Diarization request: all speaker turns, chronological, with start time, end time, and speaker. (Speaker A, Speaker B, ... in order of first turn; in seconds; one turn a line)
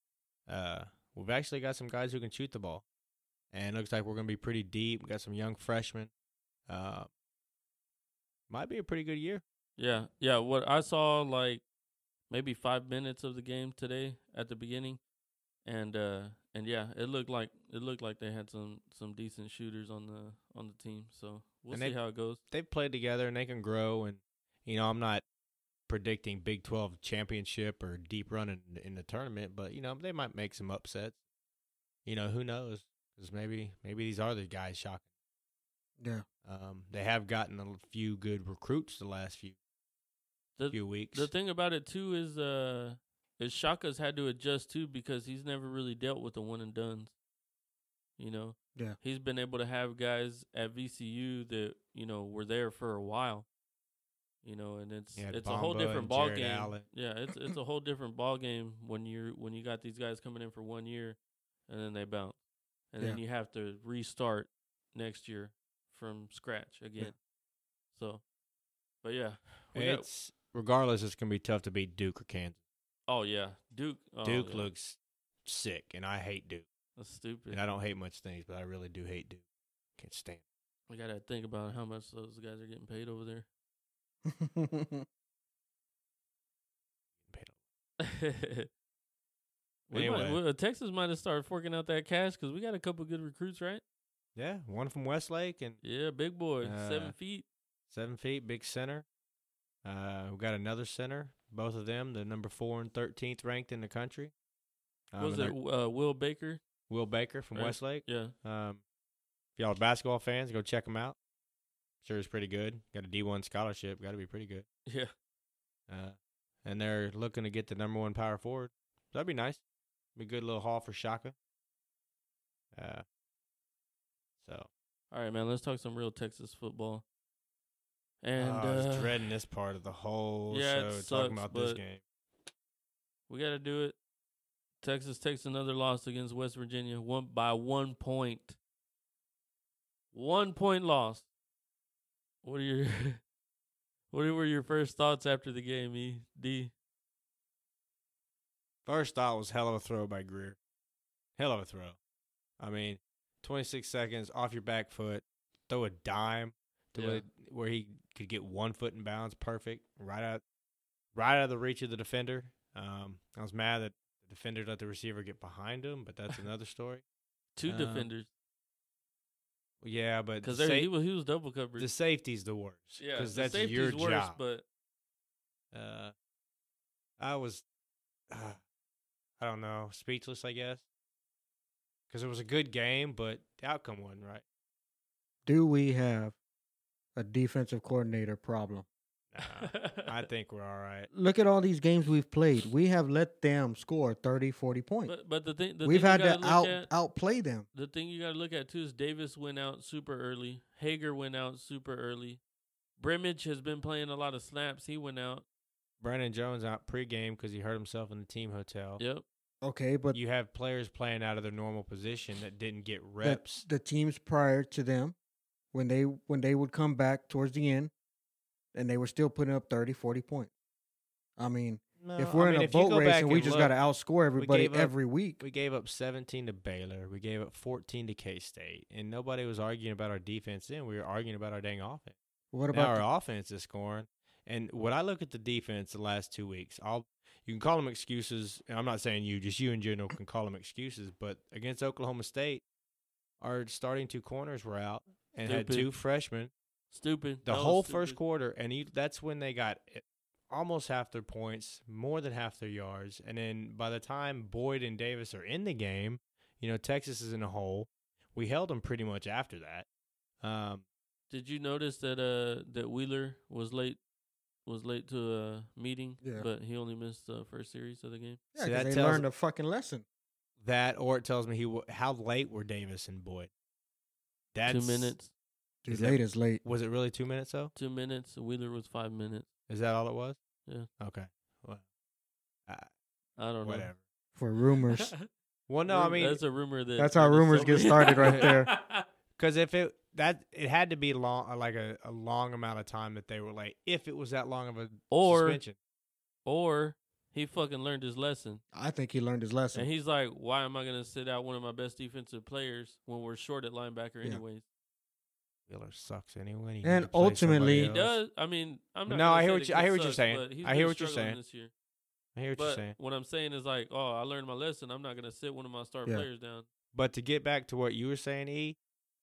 Speaker A: 0.5-2.8
Speaker A: 3.5-6.1
Speaker A: 6.7-7.1
Speaker A: 8.5-9.4
Speaker B: 9.8-11.6
Speaker B: 12.3-15.0
Speaker B: 15.6-22.4
Speaker A: 21.7-22.0
Speaker A: 22.5-25.2
Speaker A: 25.9-31.1
Speaker A: 32.0-35.0
Speaker C: 36.0-36.2
Speaker A: 36.4-39.5
Speaker B: 40.6-47.1
Speaker A: 40.7-41.3
Speaker B: 48.2-53.5
Speaker B: 54.4-62.4
Speaker A: 55.2-56.9
Speaker B: 62.9-67.1
Speaker B: 67.9-68.2
Speaker B: 69.0-70.0
Speaker A: 69.7-72.6
Speaker B: 73.1-74.7
Speaker A: 74.2-76.7
Speaker B: 77.0-77.6
Speaker A: 77.5-79.4
Speaker A: 80.0-80.4
Speaker B: 80.9-83.5
Speaker C: 84.2-85.0
Speaker A: 87.3-87.5
Speaker B: 88.0-88.7
Speaker B: 89.9-93.8
Speaker A: 89.9-90.4
Speaker A: 94.3-95.8
Speaker B: 95.8-97.5
Speaker A: 96.6-97.1
Speaker A: 97.9-99.0
Speaker A: 99.8-104.3
Speaker A: 105.1-105.5
Speaker B: 105.2-106.6
Speaker A: 106.9-108.8
Speaker B: 107.5-108.3
Speaker A: 109.6-111.2
Speaker A: 112.0-114.7
Speaker B: 114.9-115.1
Speaker A: 115.9-119.6
Speaker A: 120.2-121.3
Speaker A: 122.7-123.0
Speaker A: 124.4-124.7
Speaker B: 125.1-127.0
Speaker B: 128.2-129.2
Speaker A: 128.4-132.0
Speaker B: 130.5-131.8
Speaker B: 133.3-133.9
Speaker B: 134.8-138.6
Speaker B: 140.1-141.2
Speaker B: 142.4-143.2
Speaker B: 144.1-146.7
Speaker A: 148.8-150.6
Speaker A: 151.4-152.0
Speaker A: 152.6-160.4
Speaker B: 156.9-157.2
Speaker A: 161.1-167.0
Speaker B: 167.6-168.3
Speaker A: 167.7-168.1
Speaker A: 169.8-170.9
Speaker B: 170.4-171.9
Speaker A: 171.8-174.4
Speaker B: 173.0-174.6
Speaker A: 175.7-176.1
Speaker A: 177.2-177.6
Speaker A: 178.3-178.6
Speaker A: 179.4-180.8
Speaker A: 182.1-184.4
Speaker C: 185.4-186.3
Speaker C: 187.2-188.8
Speaker A: 189.3-191.1
Speaker B: 189.4-190.2
Speaker C: 191.1-195.1
Speaker B: 195.1-196.9
Speaker C: 195.8-197.7
Speaker B: 197.7-202.4
Speaker B: 203.0-205.4
Speaker A: 206.0-209.0
Speaker B: 209.0-209.2
Speaker C: 209.6-210.2
Speaker A: 210.1-213.6
Speaker C: 213.2-215.1
Speaker C: 215.7-217.9
Speaker C: 218.7-220.5
Speaker C: 221.4-225.4
Speaker A: 222.0-223.8
Speaker A: 224.4-232.1
Speaker C: 232.5-233.0
Speaker A: 232.7-242.6
Speaker A: 243.4-246.5
Speaker B: 245.4-245.9
Speaker B: 246.9-248.2
Speaker A: 247.4-259.9
Speaker A: 260.4-260.8
Speaker B: 261.3-264.0
Speaker B: 264.6-268.4
Speaker C: 266.2-266.5
Speaker C: 268.5-270.0
Speaker A: 268.6-269.2
Speaker A: 270.6-273.5
Speaker A: 274.5-275.1
Speaker B: 274.7-275.3
Speaker C: 275.8-276.6
Speaker A: 275.9-277.7
Speaker B: 277.8-279.5
Speaker A: 279.7-280.4
Speaker A: 281.0-281.8
Speaker B: 283.4-283.9
Speaker A: 283.6-284.0
Speaker C: 284.3-285.1
Speaker B: 284.9-285.2
Speaker A: 285.7-286.4
Speaker B: 285.9-289.1
Speaker C: 287.0-288.7
Speaker A: 288.2-288.5
Speaker A: 289.4-295.8
Speaker B: 295.1-295.6
Speaker B: 296.4-298.6
Speaker C: 298.7-299.9
Speaker B: 299.7-304.6
Speaker A: 305.7-308.2
Speaker C: 306.8-307.9
Speaker B: 307.8-311.7
Speaker A: 309.1-311.4
Speaker A: 312.3-312.9
Speaker B: 312.6-316.7
Speaker A: 316.9-318.8